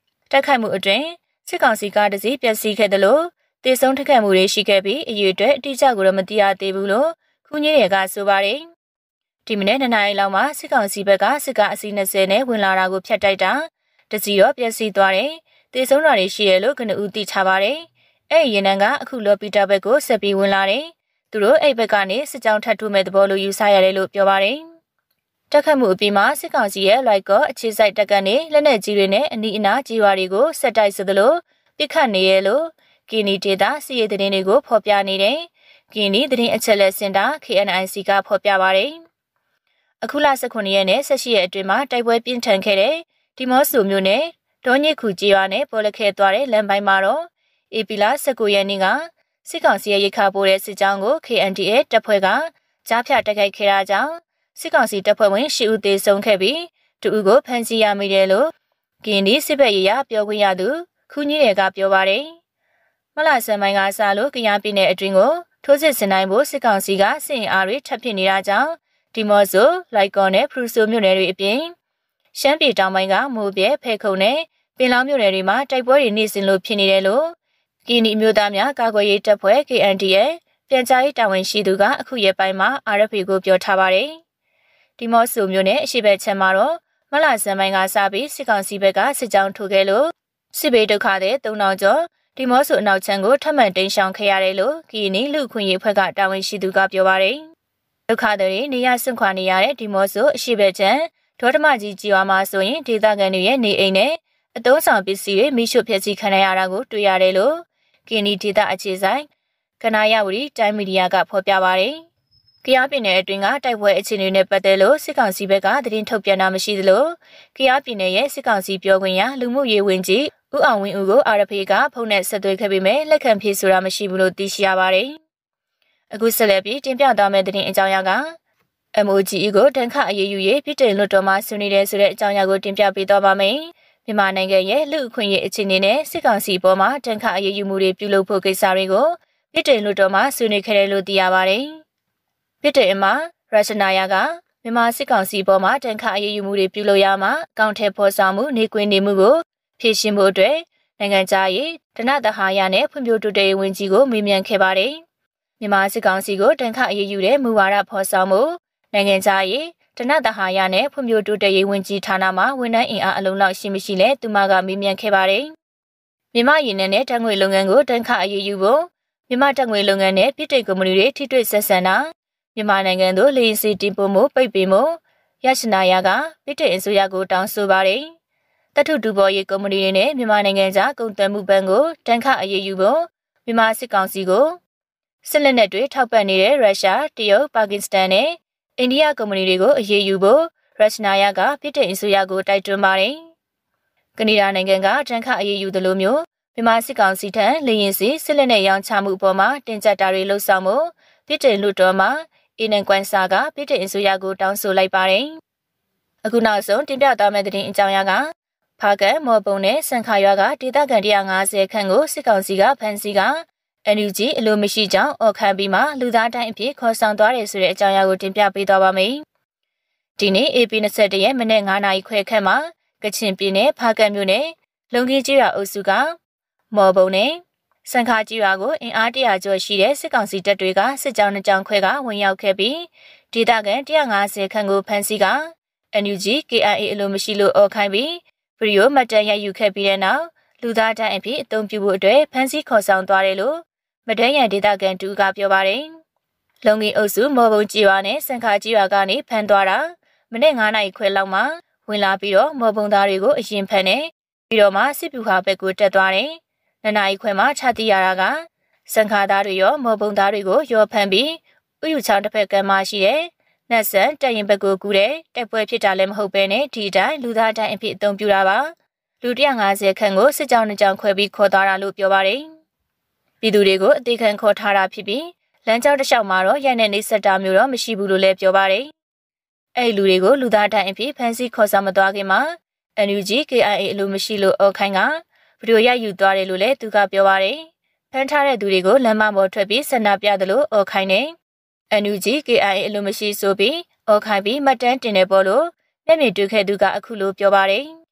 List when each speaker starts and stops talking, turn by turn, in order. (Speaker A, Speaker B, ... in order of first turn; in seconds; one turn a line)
Speaker A: 0.3-8.7
Speaker A: 9.5-24.6
Speaker A: 25.5-39.0
Speaker A: 40.0-58.5
Speaker A: 59.0-62.4
Speaker A: 63.2-71.7
Speaker A: 72.3-77.3
Speaker A: 77.8-84.2
Speaker A: 85.0-97.5
Speaker A: 98.1-109.3
Speaker A: 109.8-112.0
Speaker A: 112.6-125.2
Speaker A: 126.1-128.3
Speaker A: 128.9-141.8
Speaker A: 142.6-155.0
Speaker A: 155.6-165.5
Speaker A: 166.3-178.1
Speaker A: 178.7-184.6
Speaker A: 185.2-193.3
Speaker A: 194.2-205.4
Speaker A: 206.2-219.2
Speaker A: 220.2-226.2
Speaker A: 226.7-245.9
Speaker A: 246.6-272.5
Speaker A: 273.4-278.9
Speaker A: 279.8-291.3
Speaker A: 291.9-297.9